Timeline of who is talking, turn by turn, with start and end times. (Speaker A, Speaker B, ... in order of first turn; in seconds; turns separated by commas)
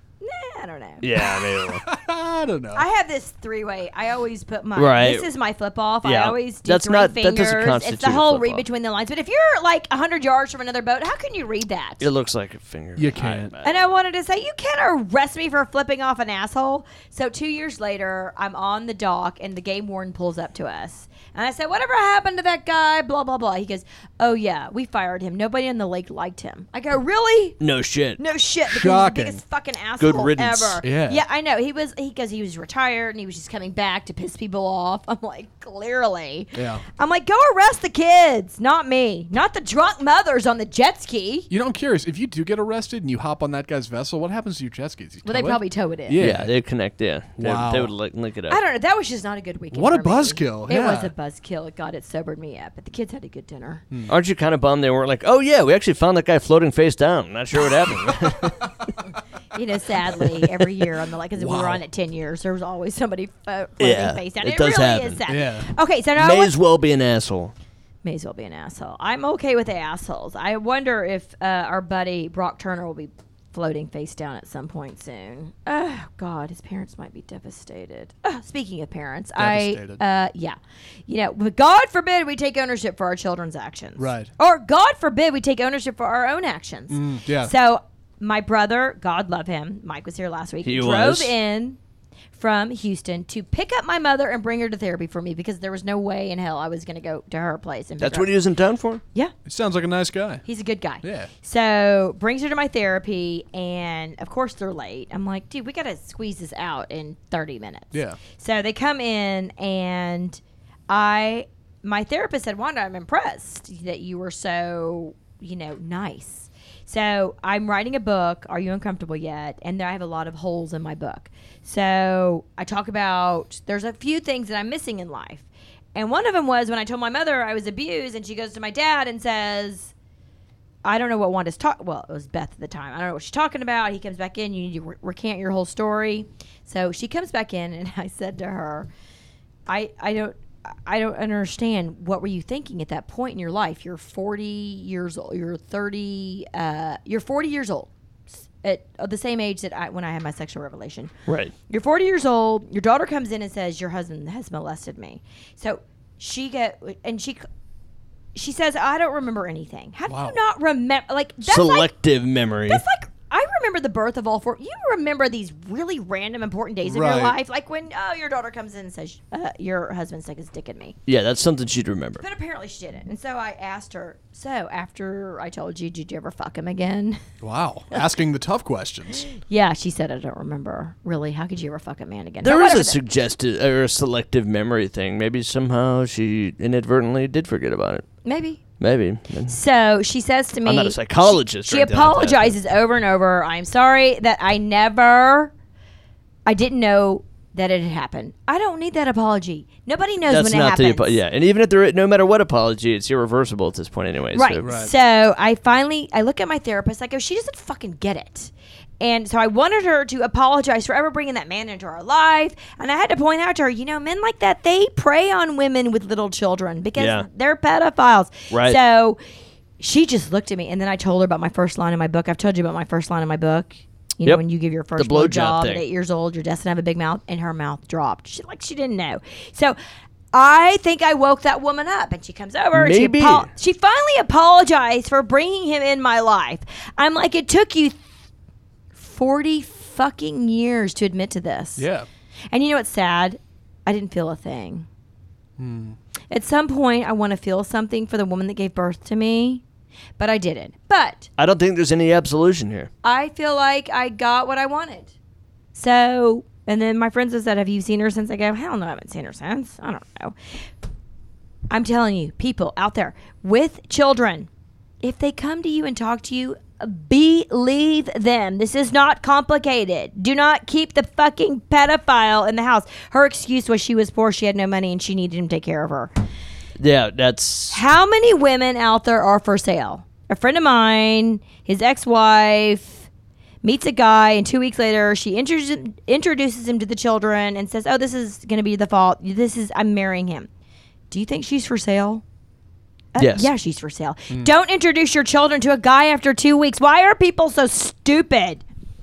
Speaker A: 0.2-1.1, Speaker B: 1.0-1.8, Speaker C: 1.8-2.9, Speaker A: 2.7-12.1, Speaker B: 4.8-5.3, Speaker B: 6.0-8.7, Speaker B: 12.0-13.8, Speaker C: 13.0-13.5, Speaker A: 13.6-27.6, Speaker B: 27.6-28.2, Speaker A: 28.2-41.5, Speaker C: 28.7-29.4, Speaker B: 30.0-30.8, Speaker C: 30.8-31.2, Speaker C: 36.5-36.8, Speaker C: 41.5-46.5, Speaker A: 45.2-46.2, Speaker B: 46.2-48.6, Speaker C: 47.4-47.9, Speaker A: 48.5-53.8, Speaker C: 49.7-51.1, Speaker B: 54.1-58.6, Speaker A: 59.5-66.5, Speaker C: 61.4-61.8, Speaker B: 63.8-65.2, Speaker C: 65.3-65.7, Speaker B: 66.2-67.5, Speaker A: 68.0-80.6, Speaker C: 79.4-80.0, Speaker A: 81.1-91.8, Speaker C: 84.0-84.3, Speaker C: 86.9-87.5, Speaker B: 90.6-91.3, Speaker A: 92.3-98.4, Speaker B: 98.0-99.0, Speaker C: 99.5-100.4, Speaker A: 100.5-129.9, Speaker C: 101.0-101.3, Speaker C: 107.9-108.2, Speaker A: 130.8-138.9, Speaker A: 139.7-151.1, Speaker B: 151.3-151.5, Speaker A: 151.7-157.4, Speaker A: 158.3-161.9, Speaker C: 160.1-160.4, Speaker B: 161.4-162.8, Speaker A: 162.7-171.0, Speaker C: 166.8-167.4, Speaker B: 171.1-172.2, Speaker A: 172.2-177.2, Speaker C: 177.4-179.3, Speaker A: 179.4-183.0, Speaker B: 182.4-188.1, Speaker A: 188.2-188.6, Speaker B: 188.8-189.6, Speaker A: 189.5-195.5, Speaker B: 190.7-192.6, Speaker A: 196.5-201.2, Speaker B: 200.3-204.6, Speaker A: 204.3-219.2, Speaker C: 204.6-204.9, Speaker B: 217.0-217.3, Speaker B: 218.5-218.8, Speaker A: 219.8-229.8, Speaker B: 225.0-225.8, Speaker A: 230.3-238.0, Speaker B: 232.7-233.5, Speaker A: 238.9-241.9, Speaker C: 241.8-242.1, Speaker A: 242.5-244.9, Speaker C: 245.6-246.0, Speaker A: 246.3-249.6, Speaker A: 250.2-251.3, Speaker B: 251.4-252.9, Speaker A: 253.0-255.1, Speaker A: 255.8-260.4, Speaker A: 261.7-264.5, Speaker A: 265.0-276.1, Speaker B: 276.8-277.8, Speaker A: 277.7-283.1, Speaker A: 283.6-290.5, Speaker A: 291.1-292.2, Speaker A: 293.1-298.6, Speaker B: 293.2-293.5